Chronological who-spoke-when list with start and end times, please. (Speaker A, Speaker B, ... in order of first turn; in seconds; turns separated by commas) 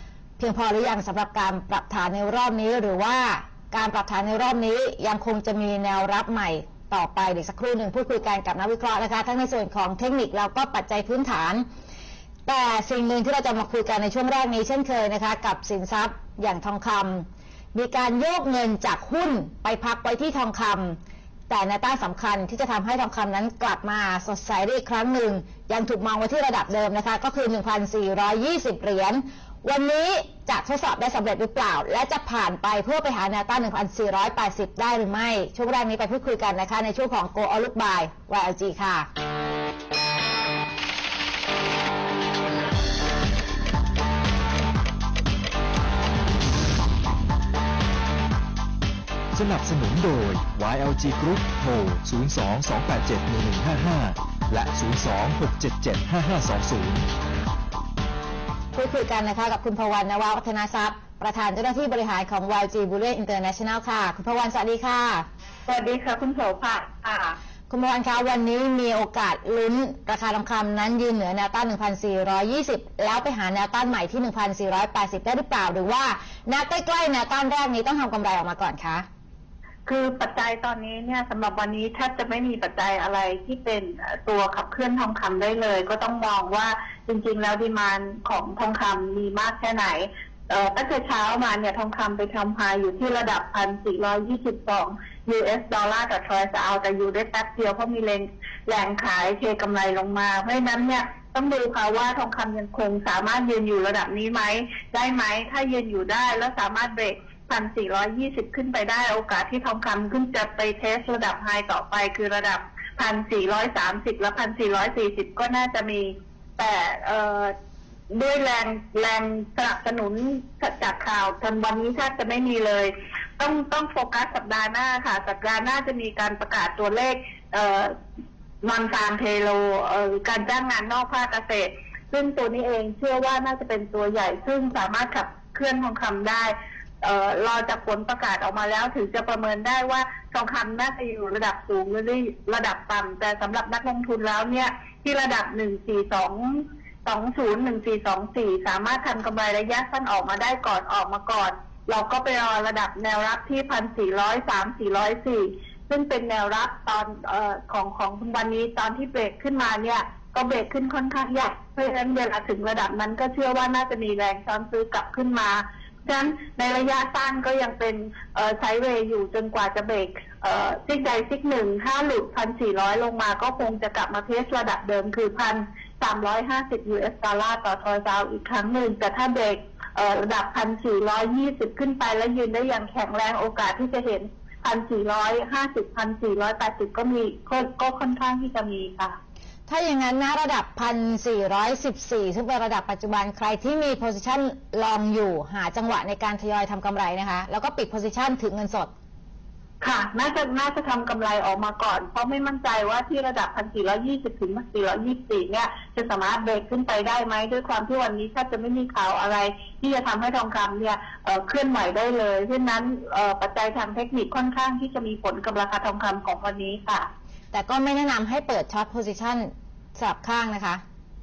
Speaker A: 0.4-11.7, Speaker A: 12.5-21.0, Speaker A: 21.5-39.1, Speaker B: 49.3-57.1, Speaker A: 58.7-65.3, Speaker C: 65.7-67.4, Speaker A: 67.7-79.0, Speaker C: 79.9-117.5, Speaker C: 118.1-127.9, Speaker C: 128.6-189.2, Speaker A: 189.7-198.9, Speaker C: 199.8-217.1, Speaker A: 217.5-220.8